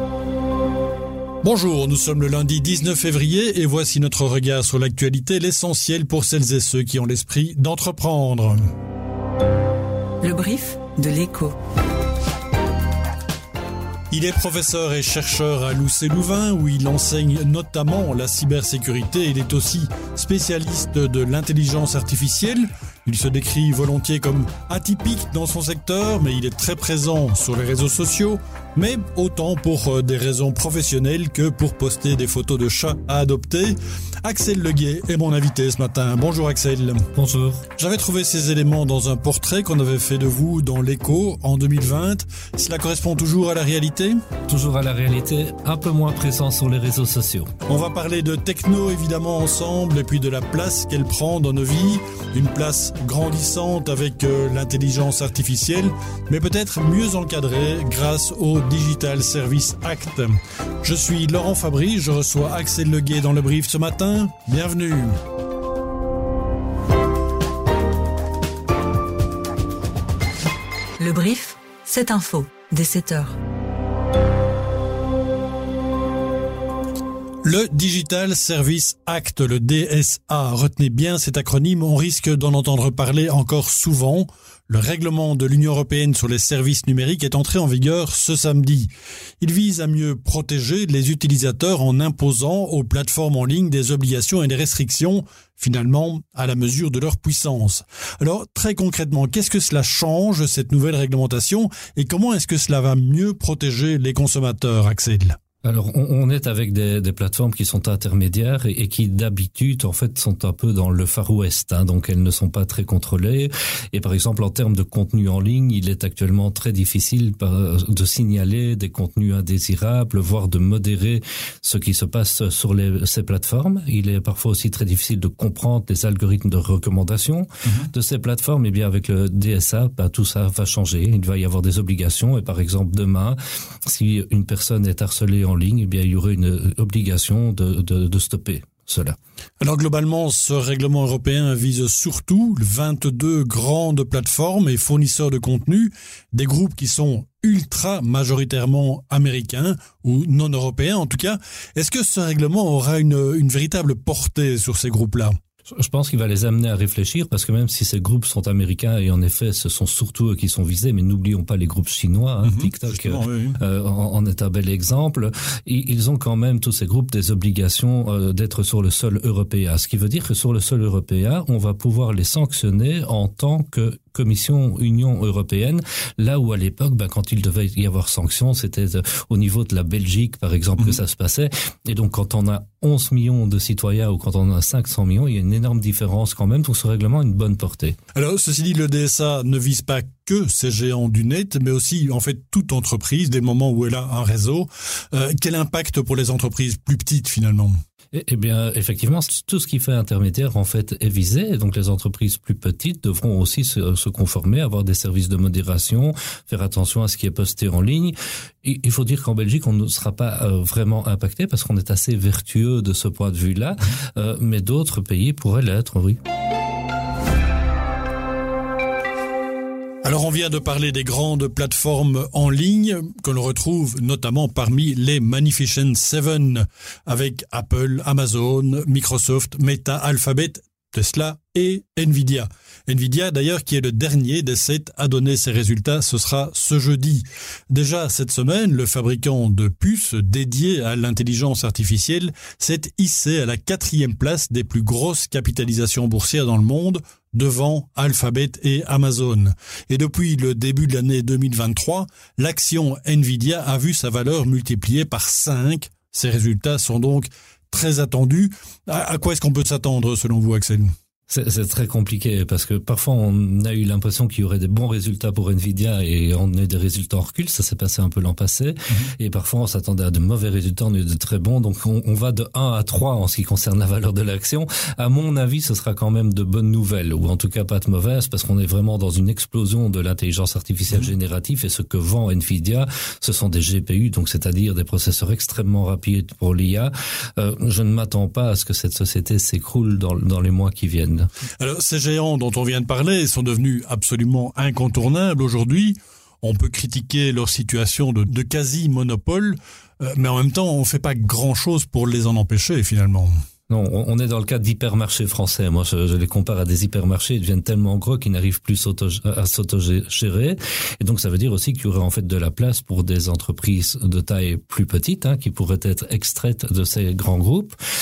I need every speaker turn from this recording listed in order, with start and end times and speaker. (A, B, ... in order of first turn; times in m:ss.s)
0:01.4-0:08.6 A
0:10.2-0:11.6 B
0:14.1-0:37.0 A
0:37.1-0:37.7 C
0:37.8-0:44.2 A
0:44.5-0:47.5 C
0:47.7-1:05.2 A
1:11.0-1:13.4 B
1:17.4-1:28.9 A
1:29.4-1:45.4 A
1:45.6-2:19.2 C
2:19.6-2:35.4 A
2:35.8-3:08.0 C
2:42.4-2:43.6 A
3:08.2-3:17.8 A
3:18.1-3:36.2 C
3:40.0-4:20.9 A
4:21.3-4:51.3 C
4:51.6-5:03.3 A
5:03.7-5:17.8 C